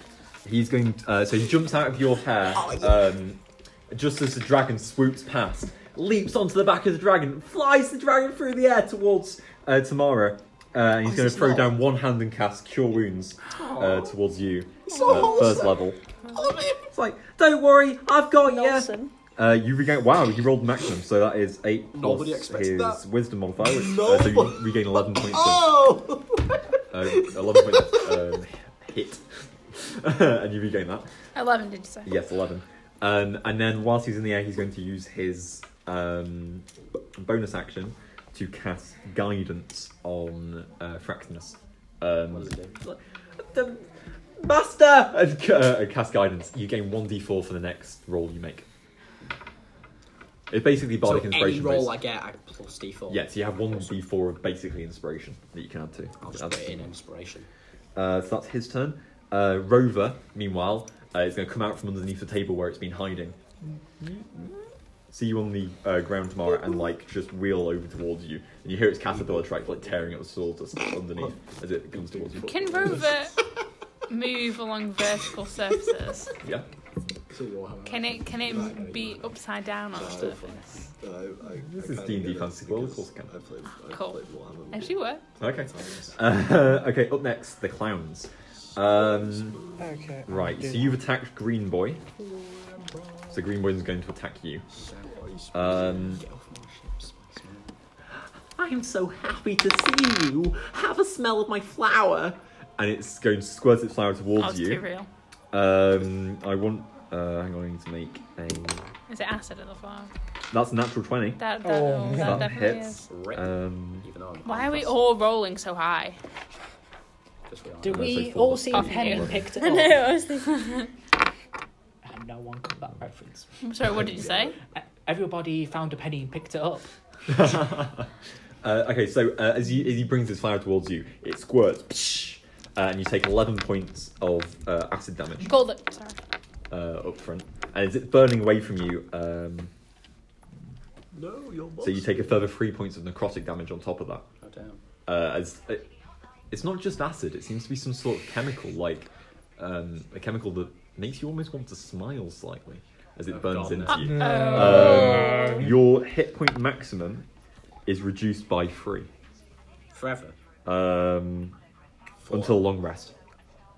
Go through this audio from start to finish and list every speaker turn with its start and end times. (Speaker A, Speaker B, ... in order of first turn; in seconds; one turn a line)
Speaker A: 0.4-16.0
Speaker B: 2.6-2.9
Speaker B: 11.1-11.6
Speaker C: 13.6-14.0
Speaker C: 14.9-16.9
Speaker A: 16.9-25.9
Speaker D: 18.4-19.1
Speaker B: 21.9-23.0
Speaker C: 23.6-26.6
Speaker A: 26.9-31.1
Speaker C: 27.2-28.1
Speaker E: 31.3-32.1
Speaker A: 32.0-43.9
Speaker B: 42.3-42.8
Speaker A: 44.4-48.6
Speaker A: 50.5-52.0
Speaker B: 51.0-53.9
Speaker A: 53.1-56.9
Speaker B: 56.2-57.5
Speaker A: 57.9-63.4
Speaker A: 65.1-72.9
Speaker B: 69.2-70.1
Speaker B: 71.9-73.0
Speaker E: 72.5-73.3
Speaker E: 74.1-76.3
Speaker B: 77.3-79.3
Speaker E: 77.8-80.6
Speaker C: 78.5-78.8
Speaker C: 79.9-80.4
Speaker B: 79.9-80.9
Speaker C: 80.9-86.2
Speaker A: 81.5-83.3
Speaker E: 83.9-85.2
Speaker A: 85.4-89.7
Speaker C: 89.0-89.4
Speaker F: 89.8-91.0
Speaker A: 90.2-92.0
Speaker B: 92.2-93.2
Speaker A: 93.3-94.7
Speaker B: 94.7-97.7
Speaker A: 95.5-96.2
Speaker A: 98.5-104.8
Speaker E: 104.4-105.1
Speaker A: 105.5-108.9
Speaker E: 109.1-110.1
Speaker A: 110.5-111.4
Speaker E: 111.4-113.1
Speaker F: 111.6-112.5
Speaker A: 112.1-114.1
Speaker B: 113.1-115.0
Speaker E: 114.4-116.2
Speaker B: 117.5-118.2
Speaker F: 117.8-120.2
Speaker A: 117.9-119.4
Speaker E: 118.7-119.3
Speaker D: 119.6-120.9
Speaker F: 122.0-123.6
Speaker E: 123.6-124.5
Speaker C: 123.9-124.5
Speaker F: 124.8-126.9
Speaker A: 127.3-128.1
Speaker A: 128.6-135.5
Speaker E: 135.4-136.2
Speaker A: 136.7-139.7
Speaker C: 141.1-142.3
Speaker A: 141.8-144.2
Speaker B: 144.4-144.8
Speaker A: 145.1-145.8
Speaker A: 146.5-157.3
Speaker B: 153.3-154.5
Speaker F: 154.1-155.7
Speaker E: 154.1-155.6
Speaker A: 157.8-159.1
Speaker B: 159.9-160.3
Speaker A: 160.6-161.6
Speaker B: 162.2-162.6
Speaker A: 162.3-163.1